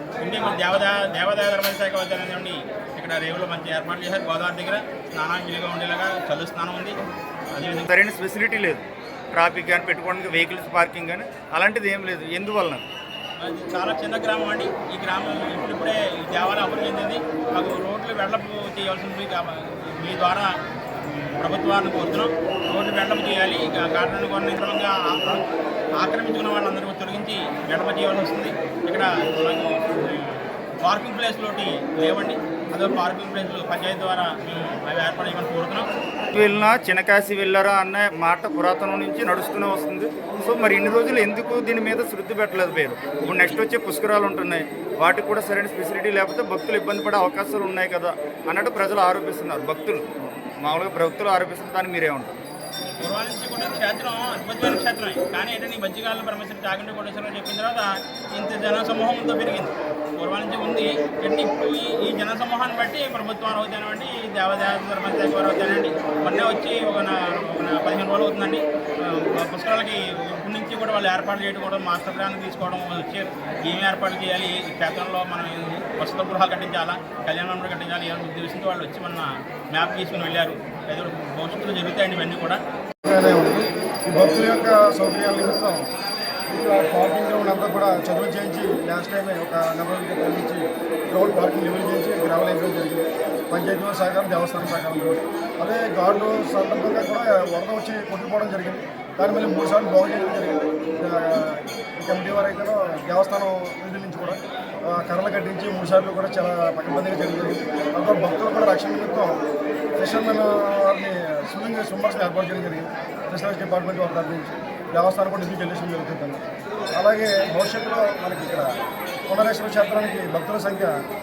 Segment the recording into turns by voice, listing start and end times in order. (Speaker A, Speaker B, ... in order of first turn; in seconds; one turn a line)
Speaker A: 0.2-7.0
Speaker A: 7.5-7.9
Speaker B: 7.9-12.8
Speaker A: 13.4-35.9
Speaker B: 36.4-50.1
Speaker B: 50.6-52.4
Speaker A: 53.0-82.6
Speaker C: 83.0-85.9
Speaker C: 86.5-109.4
Speaker C: 110.0-116.4
Speaker C: 117.0-121.0